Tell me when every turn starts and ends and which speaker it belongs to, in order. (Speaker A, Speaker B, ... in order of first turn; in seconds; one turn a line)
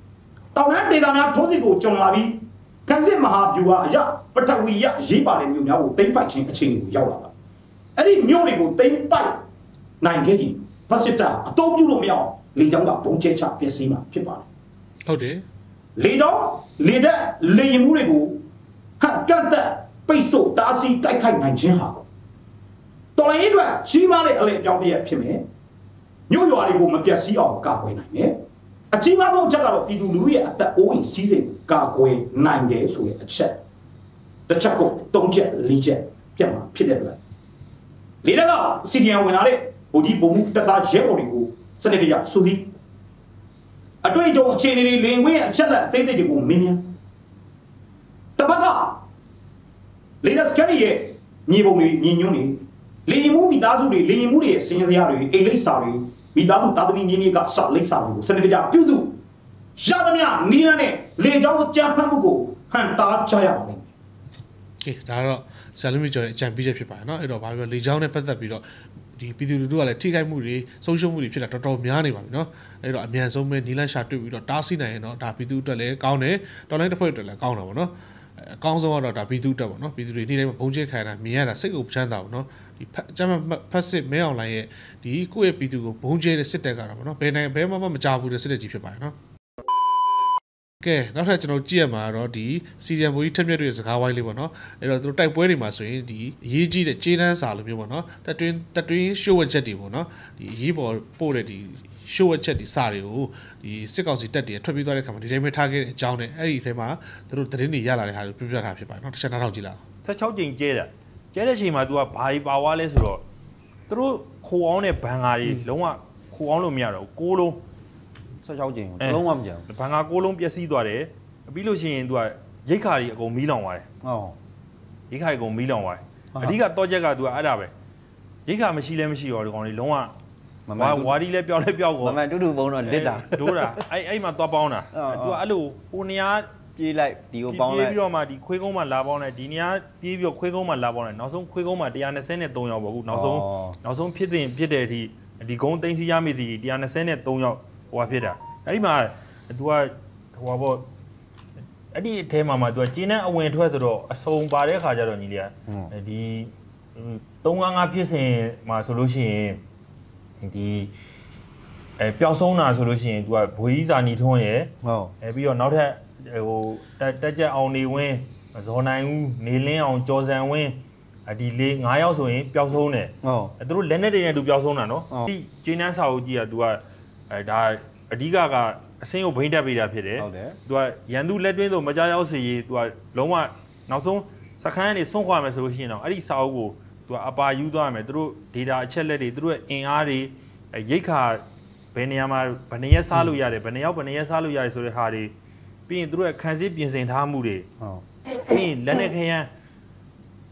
Speaker A: 0.5-7.3
Speaker A: 8.0-9.4
Speaker A: 10.0-14.4
Speaker B: 15.1-15.4
Speaker A: 16.0-18.4
Speaker A: 19.0-22.0
Speaker A: 23.2-25.4
Speaker A: 26.3-28.4
Speaker A: 28.9-33.6
Speaker A: 34.5-37.2
Speaker A: 38.2-42.7
Speaker A: 44.0-46.9
Speaker A: 48.4-49.0
Speaker A: 50.2-59.2
Speaker A: 59.8-63.9
Speaker B: 64.8-68.6
Speaker B: 69.2-89.2
Speaker B: 90.8-109.8
Speaker C: 110.0-113.2
Speaker C: 113.9-117.6
Speaker D: 118.4-119.7
Speaker C: 119.0-123.9
Speaker D: 124.0-124.4
Speaker C: 125.1-127.7
Speaker C: 128.5-130.1
Speaker D: 130.7-131.1
Speaker C: 130.8-132.2
Speaker D: 132.0-133.8
Speaker C: 132.8-136.5
Speaker D: 134.9-135.4
Speaker D: 136.8-138.0
Speaker C: 137.5-150.9
Speaker D: 143.1-143.8
Speaker C: 151.9-159.6
Speaker C: 160.4-160.9
Speaker C: 162.0-195.3
Speaker D: 164.8-165.1
Speaker D: 173.2-173.5
Speaker D: 180.2-180.6
Speaker C: 195.9-197.7
Speaker C: 198.3-199.5